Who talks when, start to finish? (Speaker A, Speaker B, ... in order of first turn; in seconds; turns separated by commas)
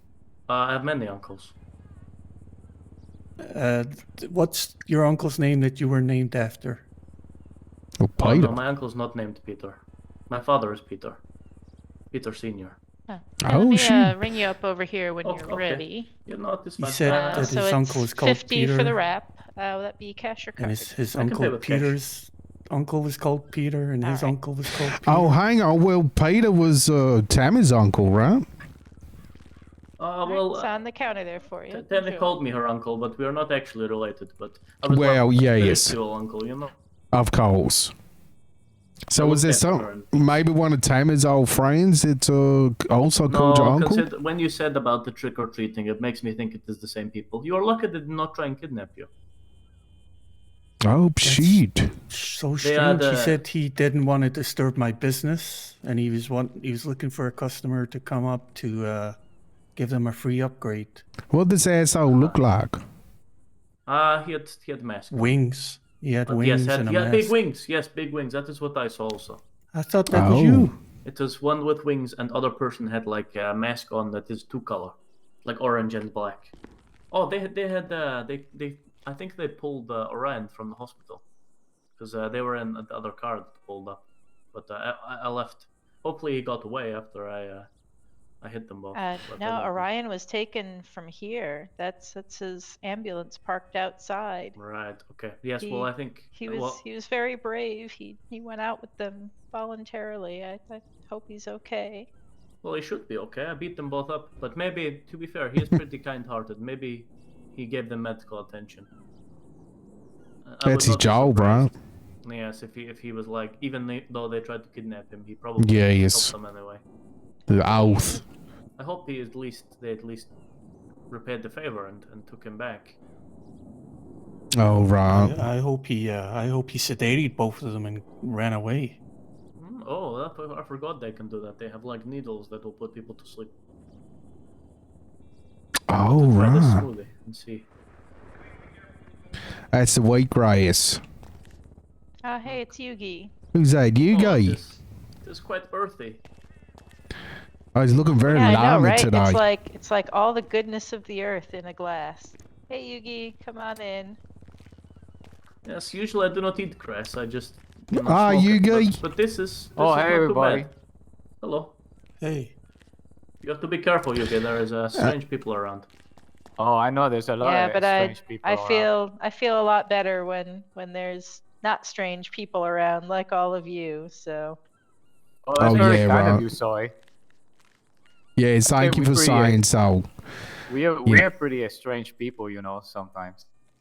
Speaker A: 0.5-1.5, Speaker B: 3.4-6.8, Speaker C: 8.0-8.5, Speaker A: 8.2-11.2, Speaker A: 12.1-12.8, Speaker D: 13.1-16.1, Speaker C: 13.4-14.2, Speaker A: 15.2-17.6, Speaker B: 16.8-18.9, Speaker D: 17.1-20.9, Speaker B: 20.6-25.4, Speaker A: 21.1-22.0, Speaker D: 24.0-24.3, Speaker C: 25.0-28.4, Speaker A: 30.0-30.7, Speaker D: 30.2-32.4, Speaker A: 31.7-36.7, Speaker C: 34.9-36.0, Speaker C: 37.1-37.9, Speaker C: 39.1-44.0, Speaker A: 39.2-40.3, Speaker A: 43.3-49.1, Speaker C: 50.9-51.9, Speaker B: 51.2-59.2, Speaker A: 52.6-53.4, Speaker B: 59.7-61.0, Speaker C: 61.3-62.8, Speaker A: 62.1-62.4, Speaker A: 63.9-65.3, Speaker B: 65.1-67.3, Speaker A: 66.3-69.4, Speaker B: 69.7-70.8, Speaker C: 70.1-70.7, Speaker A: 71.0-76.5, Speaker A: 77.1-81.2, Speaker A: 82.0-87.7, Speaker A: 88.4-89.9, Speaker D: 88.9-94.6, Speaker A: 94.6-96.8, Speaker D: 95.6-102.1, Speaker A: 102.6-108.9, Speaker A: 110.4-116.8, Speaker C: 110.7-111.7, Speaker C: 115.6-116.3, Speaker C: 117.5-118.2, Speaker D: 117.5-118.2, Speaker A: 118.8-120.3, Speaker A: 121.1-123.0, Speaker C: 124.6-125.4, Speaker B: 125.1-129.0, Speaker A: 129.6-133.5, Speaker C: 135.9-136.9, Speaker A: 136.2-137.7, Speaker C: 139.7-141.0, Speaker D: 142.2-143.3, Speaker C: 143.5-144.6, Speaker A: 144.1-146.2, Speaker C: 147.8-149.4, Speaker D: 148.3-154.2, Speaker A: 155.7-160.7, Speaker C: 157.9-159.0, Speaker E: 159.8-160.7, Speaker A: 161.4-161.8, Speaker B: 162.2-162.6, Speaker A: 163.4-165.9, Speaker E: 166.6-168.9, Speaker D: 167.4-174.6, Speaker E: 175.5-176.9, Speaker C: 175.6-176.5, Speaker C: 178.4-180.1, Speaker E: 178.7-179.6, Speaker E: 180.7-183.4